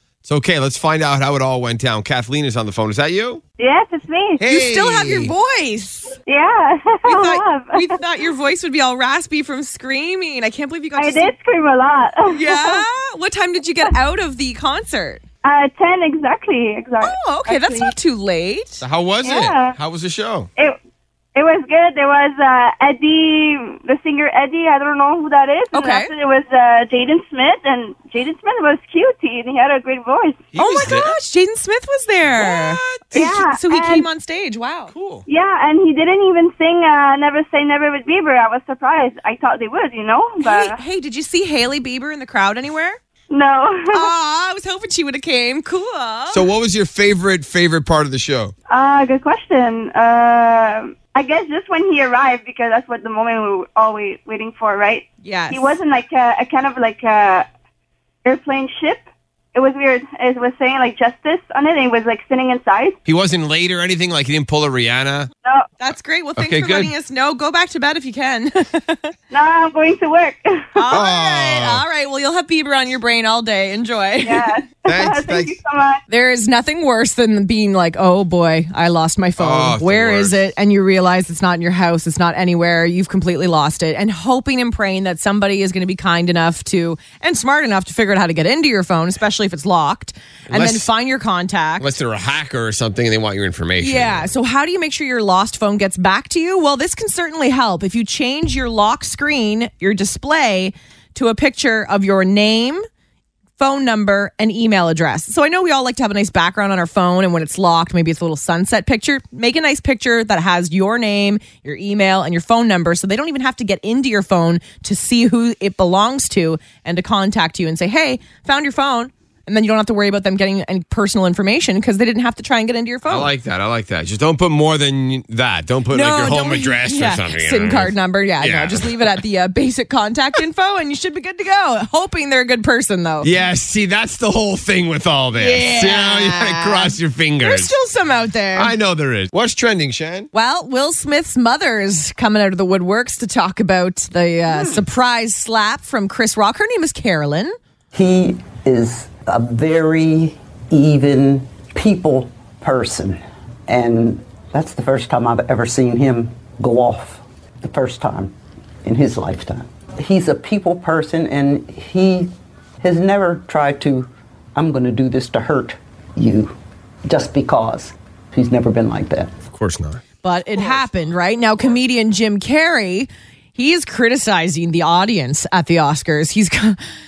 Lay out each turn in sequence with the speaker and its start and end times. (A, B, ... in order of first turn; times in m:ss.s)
0:00.2-0:03.4 A
0:03.6-0:04.4 B
0:04.4-0:05.3 A
0:04.5-0:06.2 C
0:06.3-0:07.9 B
0:07.0-0:11.3 C
0:11.0-0:12.8 B
0:12.3-0:15.2 C
0:15.4-0:17.9 B
0:17.0-0:18.8 C
0:18.8-0:20.5 A
0:19.2-0:19.8 B
0:21.4-0:30.5 B
0:25.7-0:26.1 C
0:30.5-0:31.2 A
0:30.6-0:34.9 C
0:32.4-0:33.1 A
0:33.1-0:34.1 B
0:34.9-0:35.2 A
0:35.3-0:40.8 B
0:40.4-0:43.0 C
0:43.3-0:44.1 B
0:43.9-0:46.5 C
0:46.3-0:48.5 A
0:48.7-0:57.5 B
0:55.2-0:55.7 C
0:58.2-1:03.0 B
1:03.1-1:05.3 A
1:05.8-1:09.1 C
1:06.4-1:06.9 A
1:09.3-1:10.9 B
1:10.8-1:14.6 C
1:10.9-1:11.8 A
1:14.2-1:16.0 B
1:14.9-1:15.6 A
1:16.1-1:31.9 C
1:19.4-1:20.4 A
1:30.5-1:30.9 A
1:31.8-1:34.3 A
1:33.8-1:42.8 C
1:43.6-2:03.3 C
2:03.1-2:09.2 A
2:05.9-2:13.3 C
2:13.2-2:17.7 A
2:15.4-2:18.7 C
2:18.6-2:20.3 A
2:20.3-2:27.6 C
2:24.5-2:24.8 A
2:27.9-2:38.3 D
2:38.8-2:42.3 D
2:42.8-2:49.4 D
2:49.5-2:50.0 A
2:50.2-2:56.8 C